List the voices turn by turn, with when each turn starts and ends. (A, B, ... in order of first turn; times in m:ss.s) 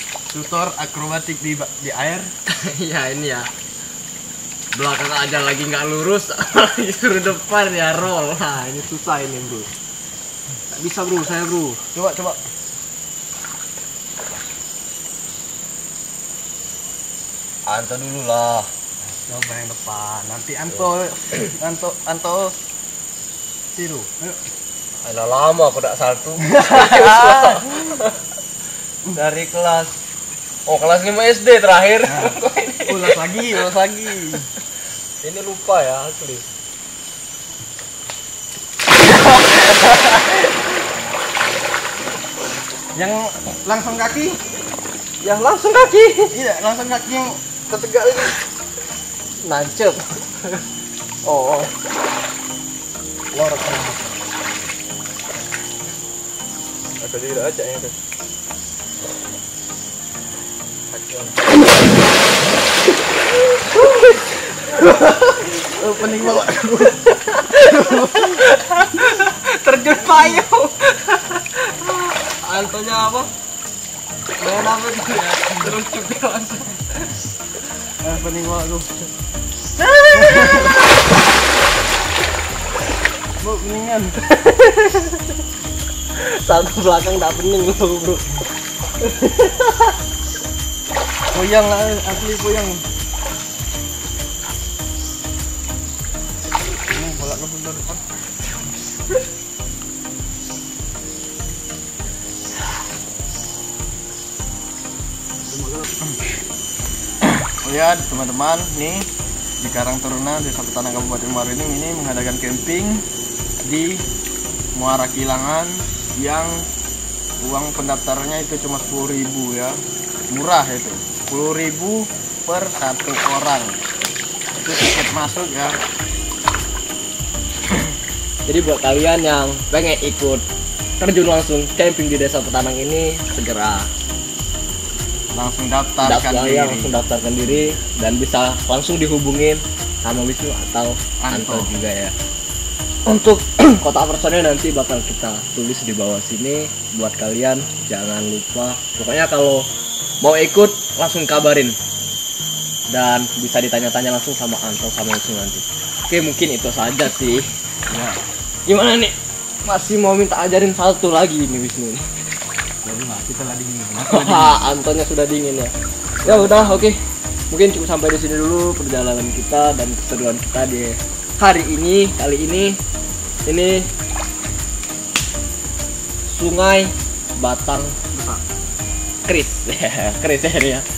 0:00.3-0:02.3 A
0:02.5-0:03.5 B
0:04.7-0:09.7 B
0:10.7-0:11.8 B
0:11.9-0:12.4 A
0:17.7-0:18.7 B
0:19.3-0:22.6 A
0:23.8-0:24.4 A
0:25.0-0:28.2 B
0:26.5-0:28.0 A
0:29.1-0:30.0 B
0:30.7-0:33.2 B
0:32.1-0:34.5 A
0:35.2-0:36.5 B
0:39.1-0:40.4 B
0:43.0-0:44.4 A
0:45.2-0:46.4 B
0:46.3-0:48.4 A
0:49.4-0:50.6 B
0:51.3-0:51.7 B
0:53.3-0:54.1 A
0:57.0-0:58.0 A
1:00.9-1:01.4 A
1:03.9-1:04.8 B
1:04.7-1:07.0 A
1:07.1-1:13.3 B
1:07.6-1:08.5 A
1:14.4-1:17.1 B
1:18.0-1:19.1 A
1:19.8-1:20.8 B
1:20.1-1:20.8 A
1:23.4-1:24.2 A
1:24.3-1:25.3 B
1:26.2-1:28.3 B
1:29.0-1:29.9 B
1:31.3-1:32.8 A
1:36.7-1:38.0 A
1:45.5-1:46.3 A
1:47.2-1:49.1 A
1:49.6-1:53.0 A
1:53.6-1:54.1 A
1:54.8-1:56.7 A
1:57.4-1:59.8 A
2:00.3-2:03.8 A
2:04.6-2:05.8 A
2:08.5-2:10.4 B
2:11.0-2:13.9 B
2:15.3-2:17.0 A
2:16.0-2:22.2 B
2:21.2-2:21.7 A
2:23.1-2:29.7 B
2:30.2-2:31.8 B
2:32.9-2:37.5 B
2:37.9-2:38.2 A
2:38.7-2:42.0 B
2:42.8-2:44.6 A
2:44.1-2:52.8 B
2:46.2-2:46.9 A
2:53.5-2:53.9 B
2:56.3-2:58.0 B
2:58.1-2:58.4 A
2:59.3-3:00.9 B